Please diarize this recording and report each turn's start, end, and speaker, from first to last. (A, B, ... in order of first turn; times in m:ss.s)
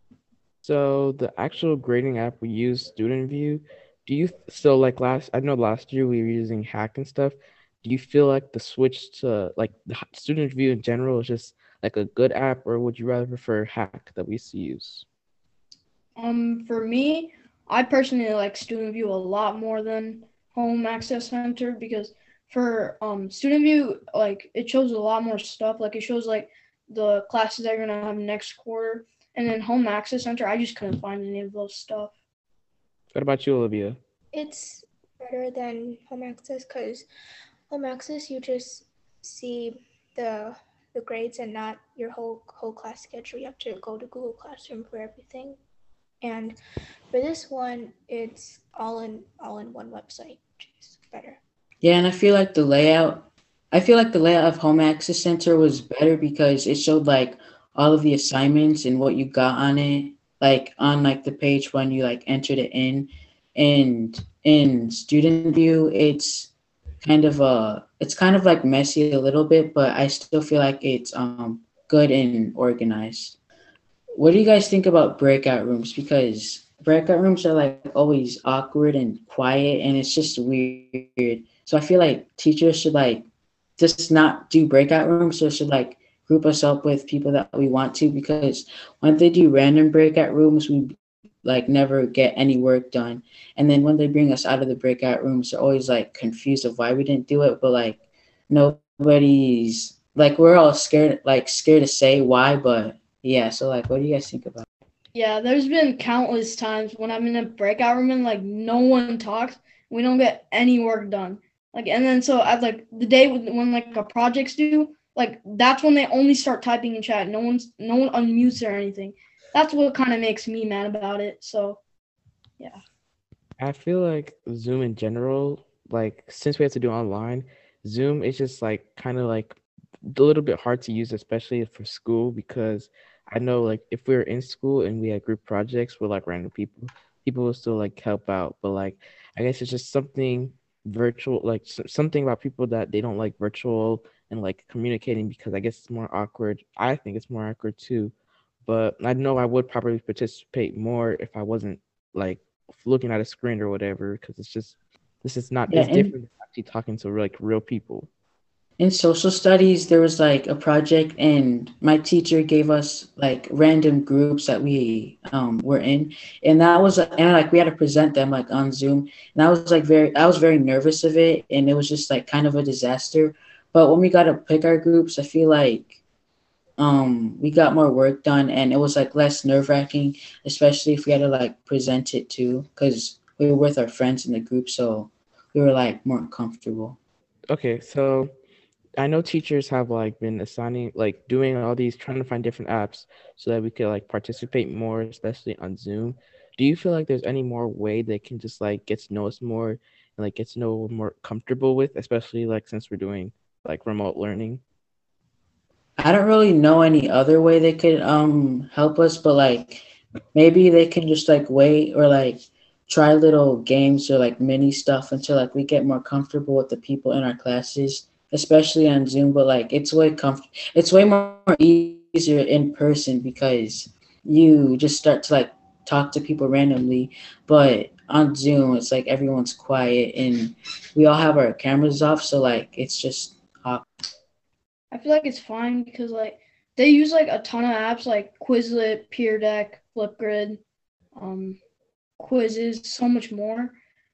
0:00.6-0:15.0 A
0:16.2-0:32.1 B
0:33.1-0:34.0 A
0:34.3-0:37.1 C
0:37.7-0:45.6 C
0:46.2-0:46.6 C
0:47.1-0:51.4 C
0:51.8-1:06.5 D
1:07.0-1:13.4 D
1:14.2-1:23.3 D
1:23.8-1:38.0 D
1:38.5-1:44.7 D
1:45.1-2:01.8 B
2:03.6-2:09.6 A
2:10.1-2:28.1 A
2:28.7-2:38.1 A
2:35.7-2:36.1 D
2:38.8-2:56.0 D
2:56.8-3:07.0 D
3:07.5-3:08.3 A
3:09.0-3:24.6 A
3:26.0-3:53.9 D
3:54.9-4:00.6 B
4:01.2-4:01.6 B
4:02.2-4:03.8 B